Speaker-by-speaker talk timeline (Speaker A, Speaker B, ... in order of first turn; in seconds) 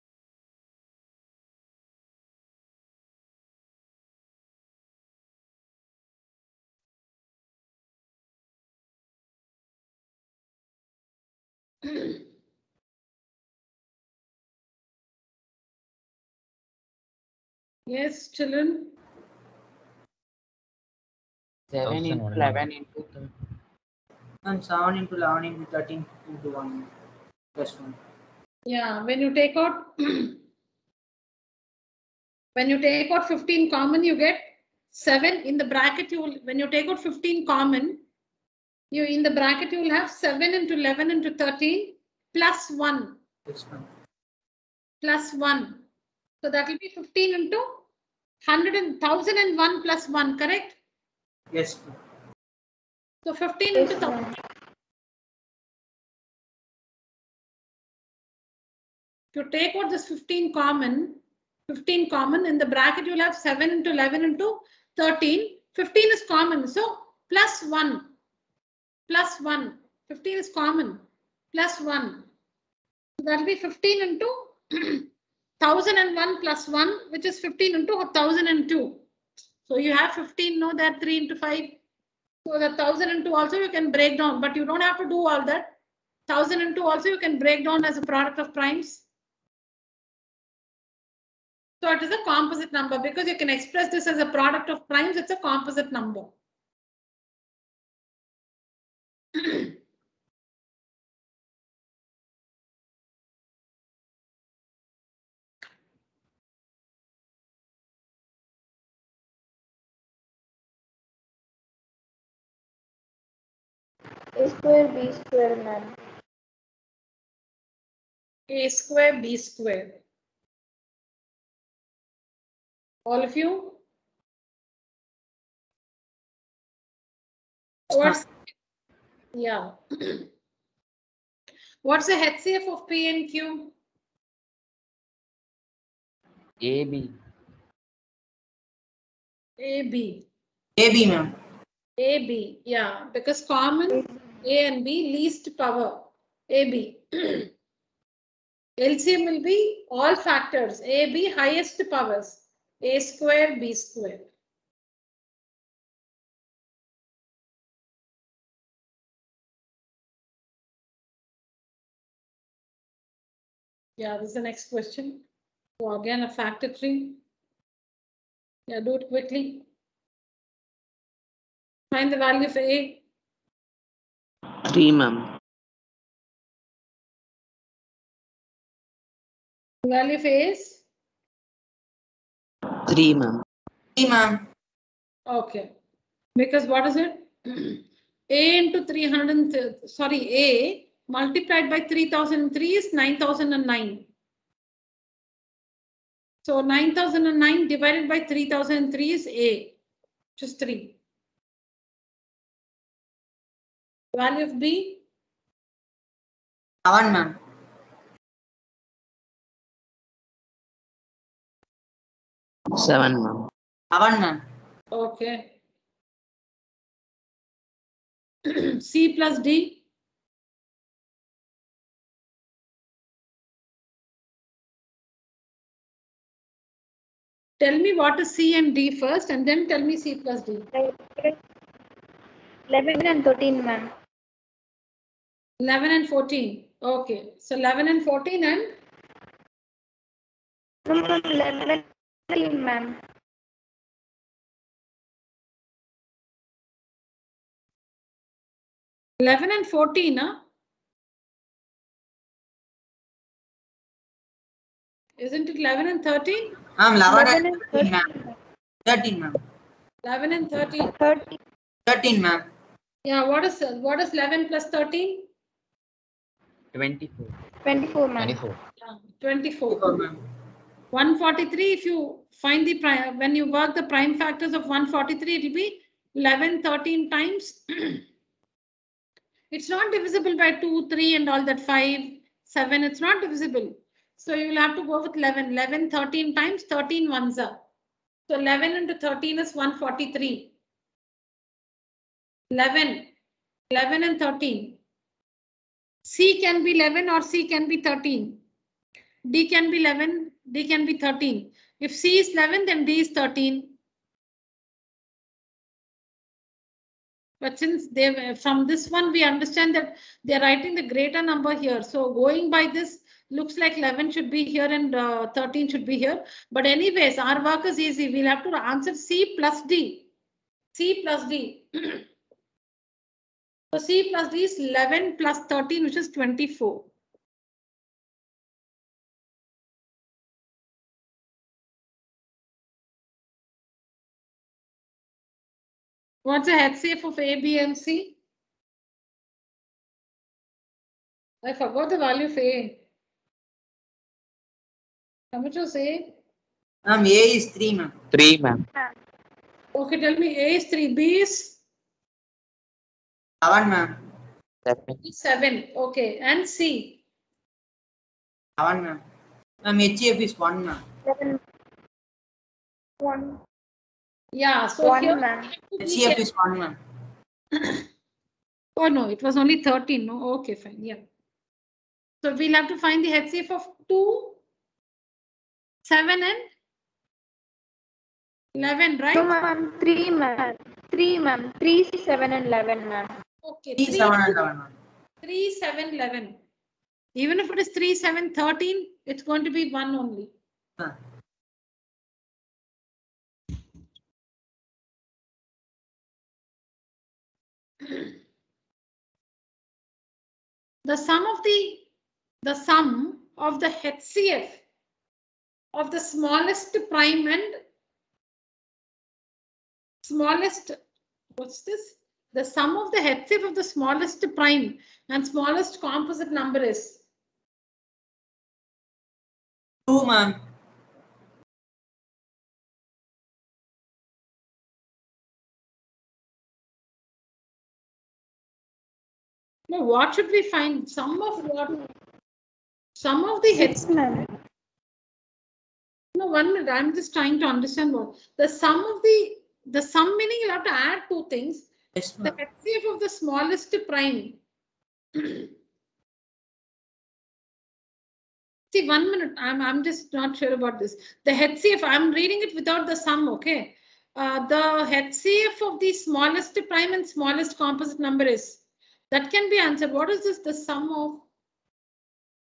Speaker A: 17.9-19.0, 28.7-30.4, 32.6-38.0, 38.9-43.2, 45.0-45.9, 46.4-47.9, 48.4-50.8, 53.2-54.3, 59.3-68.1, 69.1-72.3, 73.2-75.1, 75.6-79.0, 79.7-81.8, 82.5-85.7, 86.3-89.0, 91.8-96.3, 118.5-120.0, 123.1-123.8, 127.9-128.3, 129.3-130.2, 131.8-133.7, 139.6-140.3, 142.0-147.5, 148.8-154.3, 164.0-165.2, 165.8-167.2, 168.7-169.7, 171.9-173.0, 179.8-180.8, 185.3-185.7, 186.4-194.1, 196.4-199.8, 200.4-201.0, 204.1-205.0, 214.9-215.5, 218.5-219.8, 227.6-230.7, 235.6-238.8, 249.2-250.4, 255.2-256.6, 260.0-260.9, 263.1-265.3, 268.8-269.9, 270.9-278.0, 279.5-287.6, 288.3-290.5, 292.5-293.1, 293.7-294.8, 296.1-298.4, 299.3-303.8, 307.4-320.1, 320.8-322.0, 323.7-326.9, 336.2-338.2, 341.4-342.8, 345.3-346.1, 349.8-351.6, 355.0-357.0, 364.3-366.2, 368.8-371.0, 372.2-374.4, 375.9-376.5, 378.6-379.3, 383.4-384.4, 385.2-386.4, 387.2-390.3, 400.9-401.9, 402.4-404.6, 405.8-407.6, 410.0-410.8, 411.4-417.0, 429.7-431.8, 433.0-433.9, 436.1-441.7, 442.2-444.4, 445.2-445.5, 448.7-461.2
Speaker B: 21.7-22.7, 136.6-137.1, 266.8-267.3, 268.2-268.6, 348.2-348.6
Speaker C: 21.8-22.8, 174.7-175.3, 182.9-183.4, 212.8-213.5
Speaker D: 24.4-26.9, 27.6-28.0, 43.5-43.9, 51.5-52.0, 127.9-128.2, 140.8-141.3, 184.0-184.4, 206.8-207.4, 213.9-214.4, 256.8-258.1, 258.9-259.4, 261.9-262.5, 269.7-270.2, 346.9-347.9, 353.4-353.9, 358.6-359.0, 359.6-360.8, 365.8-366.8, 383.8-384.7, 419.9-420.4, 442.0-442.4
Speaker E: 53.8-54.4, 114.4-116.0, 230.8-231.4, 232.7-233.9, 240.9-243.0, 257.1-258.3, 260.8-261.4, 267.6-268.4, 361.1-361.4, 363.0-363.4, 364.8-365.5, 379.1-383.1, 433.5-434.3